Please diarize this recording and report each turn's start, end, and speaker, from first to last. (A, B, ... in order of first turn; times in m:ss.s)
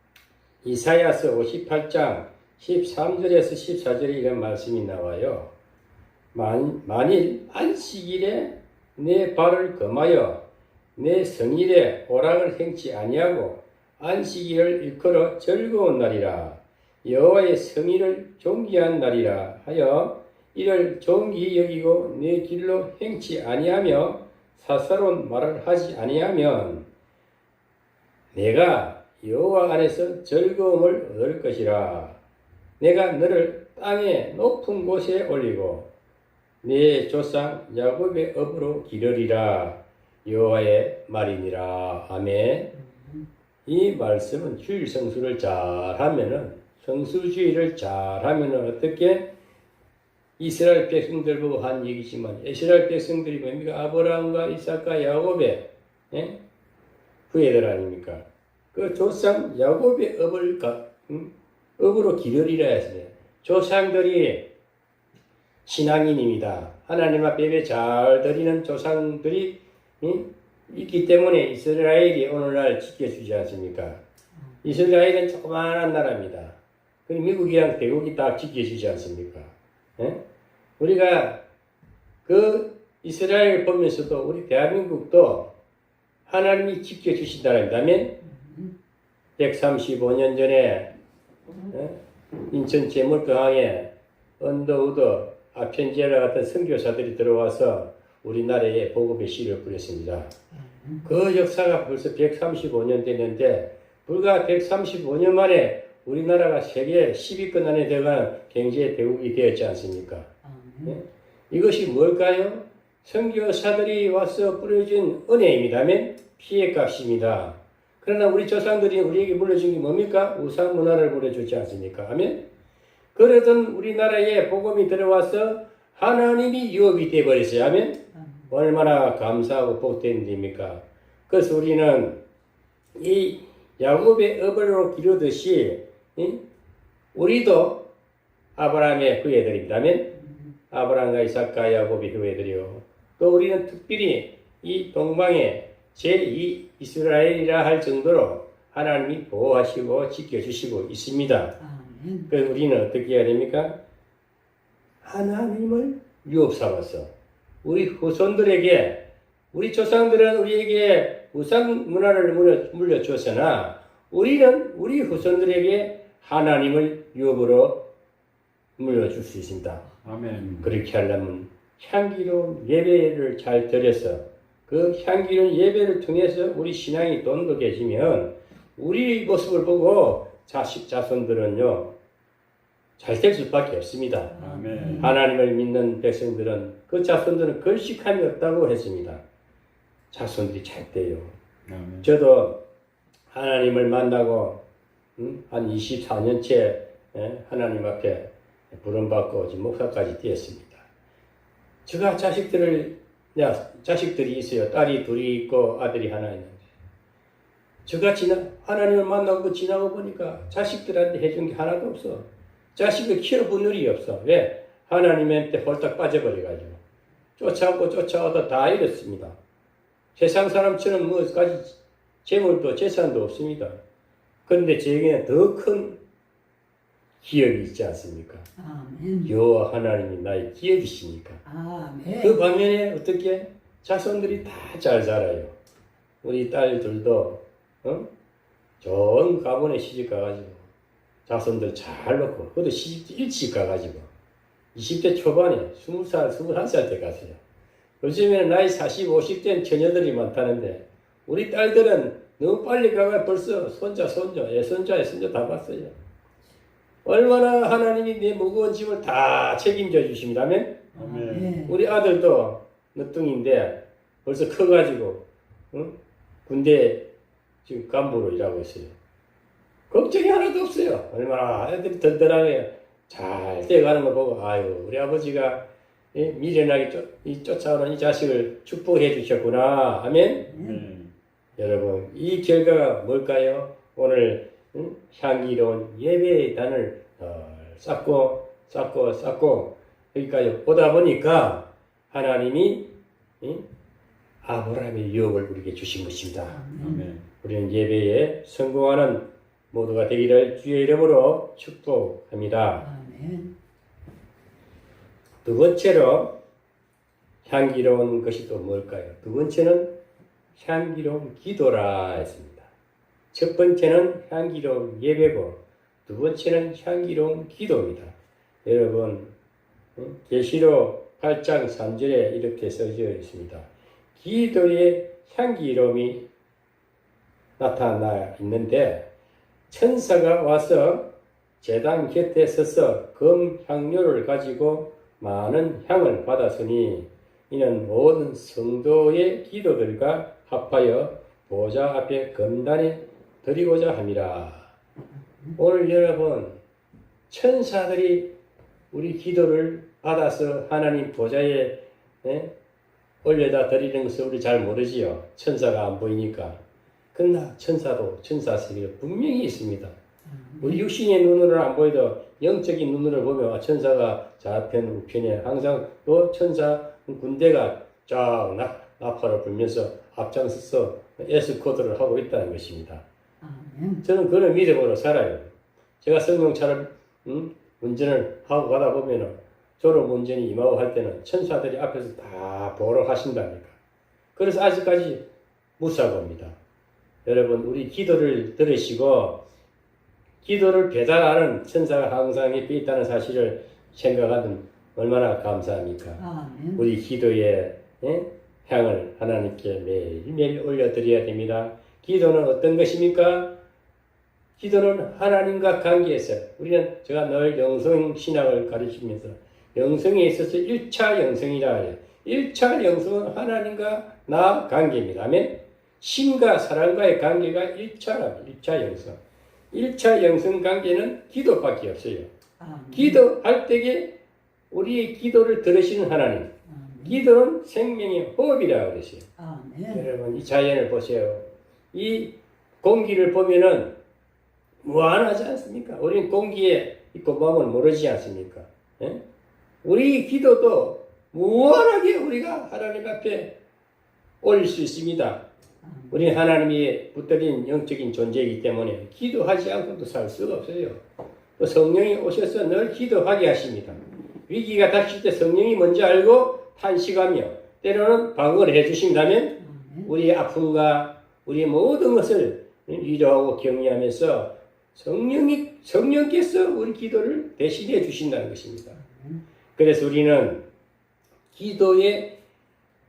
0:00.6-0:05.5 A
0:06.3-0:10.4 A
0:11.0-0:26.9 A
0:28.3-0:32.2 A
0:32.8-0:35.9 A
0:36.6-0:42.7 A
0:42.7-0:43.3 B
0:43.6-0:49.3 A
0:50.4-0:56.4 A
0:57.3-1:04.5 A
1:05.6-1:14.0 A
1:14.6-1:20.2 A
1:20.8-1:21.4 A
1:22.2-1:25.5 A
1:26.3-1:28.1 A
1:28.2-1:28.7 B
1:29.4-1:30.9 A
1:31.7-1:40.3 A
1:40.5-1:41.1 B
1:41.0-1:50.3 A
1:50.4-1:51.0 B
1:50.8-2:02.4 A
2:03.1-2:08.0 A
2:08.1-2:08.5 B
2:08.5-2:12.2 A
2:12.9-2:16.4 A
2:17.1-2:17.8 A
2:18.6-2:20.1 A
2:20.2-2:20.5 B
2:20.7-2:31.5 A
2:31.6-2:32.3 B
2:32.3-2:33.8 A
2:35.0-2:37.1 A
2:37.6-2:47.8 A
2:48.8-2:49.8 A
2:50.0-2:50.8 C
2:50.6-3:01.9 A
3:03.0-3:04.3 A
3:04.3-3:05.1 B
3:04.4-3:05.1 C
3:05.0-3:09.2 A
3:10.1-3:11.3 A
3:11.6-3:12.1 C
3:12.0-3:12.6 A
3:13.3-3:14.6 A
3:15.2-3:20.8 A
3:21.8-3:26.6 A
3:27.8-3:36.8 A
3:37.4-3:39.4 A
3:40.2-3:43.8 A
3:44.4-3:46.0 A
3:47.2-3:48.5 A
3:48.6-3:49.3 B
3:49.2-3:51.4 A
3:51.4-3:52.4 B
3:52.2-3:55.6 A
3:56.2-3:58.1 A
3:58.8-4:00.7 A
4:01.2-4:04.1 A
4:04.7-4:07.4 A
4:08.0-4:15.9 A
4:17.0-4:20.8 A
4:20.9-4:21.8 B
4:20.9-4:21.6 C
4:21.6-4:27.0 A
4:27.6-4:28.9 A
4:29.9-4:40.4 A
4:40.5-4:40.8 B
4:40.5-4:41.1 C
4:41.6-4:52.9 A
4:54.4-4:56.6 A
4:56.5-4:57.1 B
4:56.8-4:57.2 C
4:57.4-5:02.8 A
5:02.8-5:03.5 B
5:05.4-5:06.3 A
5:07.4-5:09.9 A
5:10.6-5:12.7 A
5:13.3-5:19.3 A
5:20.0-5:26.2 A
5:27.6-5:29.0 A
5:29.7-5:31.1 A
5:31.6-5:44.7 A
5:45.6-5:46.6 A
5:47.3-5:48.3 A
5:48.9-5:52.5 A
5:53.2-5:56.6 A
5:57.1-6:00.0 A
6:00.2-6:00.8 B
6:00.6-6:13.0 A
6:13.4-6:14.0 B
6:14.0-6:23.8 A
6:24.3-6:25.2 A
6:25.8-6:26.6 A
6:27.2-6:29.4 A
6:30.4-6:36.2 A
6:36.2-6:36.8 B
6:36.8-6:43.5 A
6:44.6-6:59.2 A
6:59.7-7:02.3 A
7:02.6-7:03.2 B
7:02.9-7:04.1 A
7:04.7-7:06.5 A
7:06.7-7:07.2 B
7:07.0-7:09.3 A
7:09.4-7:10.0 B
7:09.9-7:13.9 A
7:14.8-7:19.2 A
7:19.8-7:23.5 A
7:24.4-7:25.4 A
7:25.8-7:26.4 B
7:26.1-7:31.0 A
7:31.6-7:49.0 A
7:39.6-7:40.1 B
7:48.9-7:49.4 B
7:49.8-7:50.6 A
7:51.5-7:52.3 A